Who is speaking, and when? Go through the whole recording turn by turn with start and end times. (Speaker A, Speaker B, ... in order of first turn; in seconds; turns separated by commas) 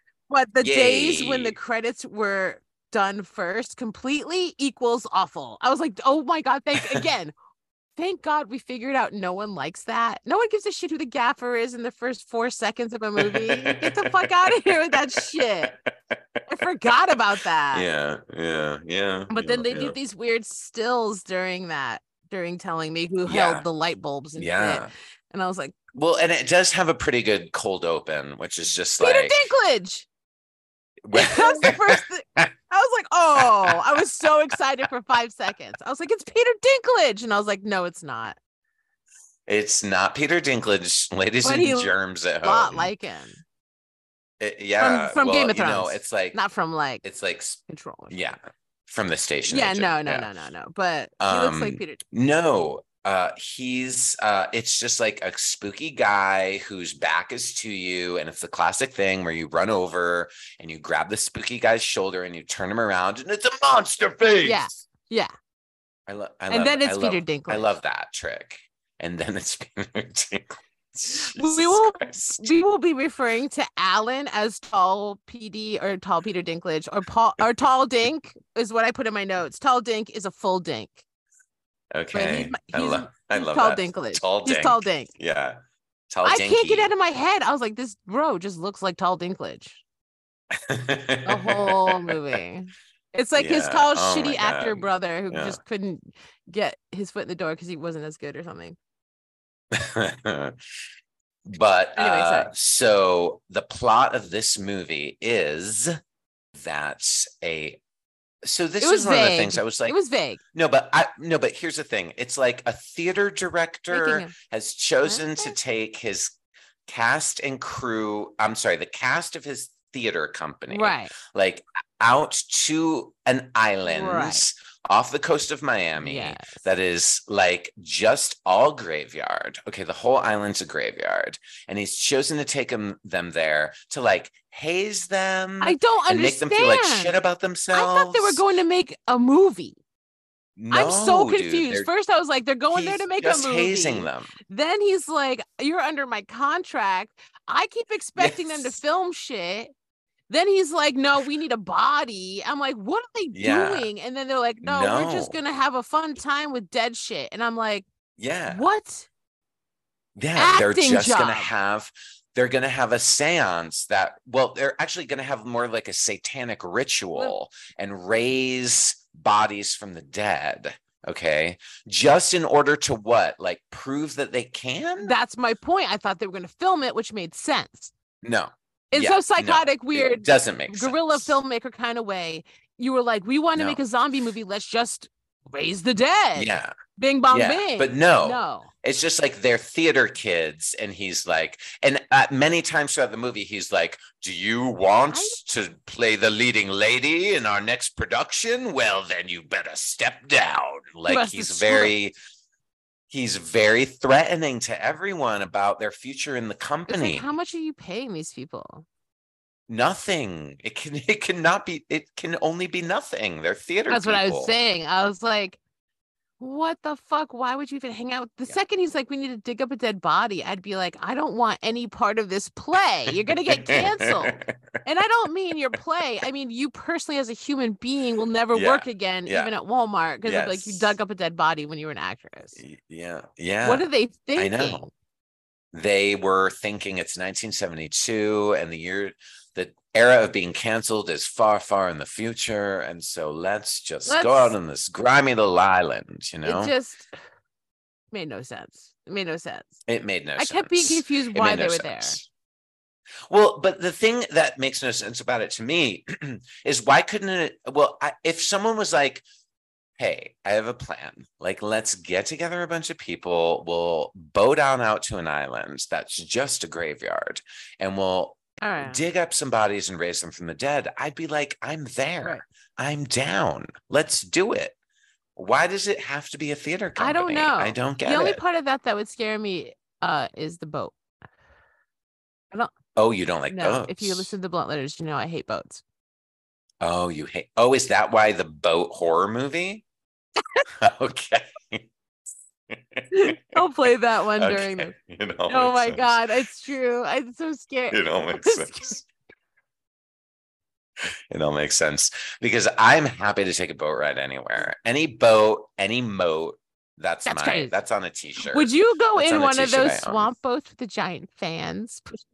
Speaker A: 0.3-7.3, Speaker B: 0.6-1.6, Speaker B: 6.8-7.0, Speaker A: 8.0-15.7, Speaker B: 13.2-17.2, Speaker A: 16.5-17.9, Speaker B: 17.7-20.0, Speaker A: 19.3-25.7, Speaker B: 23.3-23.6, Speaker B: 24.4-24.9, Speaker B: 25.9-29.4, Speaker A: 29.0-30.1, Speaker B: 31.0-32.5, Speaker A: 31.1-38.4, Speaker B: 33.4-34.3, Speaker B: 39.5-42.9, Speaker A: 41.4-43.4, Speaker B: 44.4-46.4, Speaker A: 44.8-47.0, Speaker B: 47.0-50.3, Speaker A: 47.7-48.2, Speaker A: 49.5-52.0, Speaker B: 51.2-64.8, Speaker A: 64.4-65.3, Speaker B: 66.1-72.5, Speaker A: 66.5-67.7, Speaker A: 71.1-81.0, Speaker B: 81.9-86.9, Speaker A: 82.1-85.1, Speaker A: 86.2-89.8, Speaker B: 90.5-92.2, Speaker A: 91.2-98.8, Speaker B: 93.4-95.6, Speaker B: 99.7-100.6, Speaker B: 101.5-106.0, Speaker A: 102.0-102.5, Speaker B: 106.5-107.8, Speaker B: 108.4-110.0, Speaker A: 108.8-110.4, Speaker B: 110.5-138.4, Speaker A: 113.9-114.3, Speaker A: 115.0-115.5, Speaker A: 120.7-121.1, Speaker A: 123.9-124.5, Speaker A: 126.0-126.6, Speaker A: 135.6-137.2, Speaker A: 137.7-139.8, Speaker B: 140.6-141.9, Speaker A: 140.7-149.7, Speaker B: 142.7-144.3, Speaker B: 148.2-148.8, Speaker A: 150.3-157.8, Speaker B: 153.3-153.9, Speaker B: 154.6-155.4, Speaker B: 158.2-158.7, Speaker A: 158.5-159.1, Speaker B: 160.2-175.2, Speaker A: 160.4-161.5, Speaker A: 175.0-177.9, Speaker B: 178.2-181.3, Speaker A: 178.9-188.7, Speaker B: 183.6-183.8, Speaker B: 186.4-186.7, Speaker B: 187.3-202.2, Speaker A: 195.1-195.4, Speaker A: 201.1-201.9, Speaker B: 203.1-207.3, Speaker A: 206.9-208.9, Speaker B: 209.7-214.6, Speaker A: 213.9-215.6, Speaker A: 216.4-232.6, Speaker B: 223.1-224.6, Speaker B: 228.5-229.5, Speaker B: 230.2-231.0, Speaker B: 232.6-234.9, Speaker A: 233.6-234.9, Speaker B: 235.7-246.7, Speaker A: 244.1-244.6, Speaker A: 246.4-247.1, Speaker A: 248.1-249.8, Speaker B: 249.9-252.3, Speaker A: 250.4-252.2, Speaker B: 253.3-259.3, Speaker B: 260.0-274.8, Speaker A: 268.6-269.0, Speaker B: 275.4-278.4, Speaker A: 277.0-280.9, Speaker B: 283.0-284.3, Speaker A: 283.5-285.8, Speaker B: 286.8-289.8, Speaker B: 290.8-291.9, Speaker B: 292.7-293.7, Speaker A: 293.1-294.9, Speaker B: 294.4-296.2, Speaker A: 295.5-299.0, Speaker B: 297.9-299.0, Speaker B: 301.0-310.3, Speaker A: 307.3-307.7, Speaker A: 308.4-312.2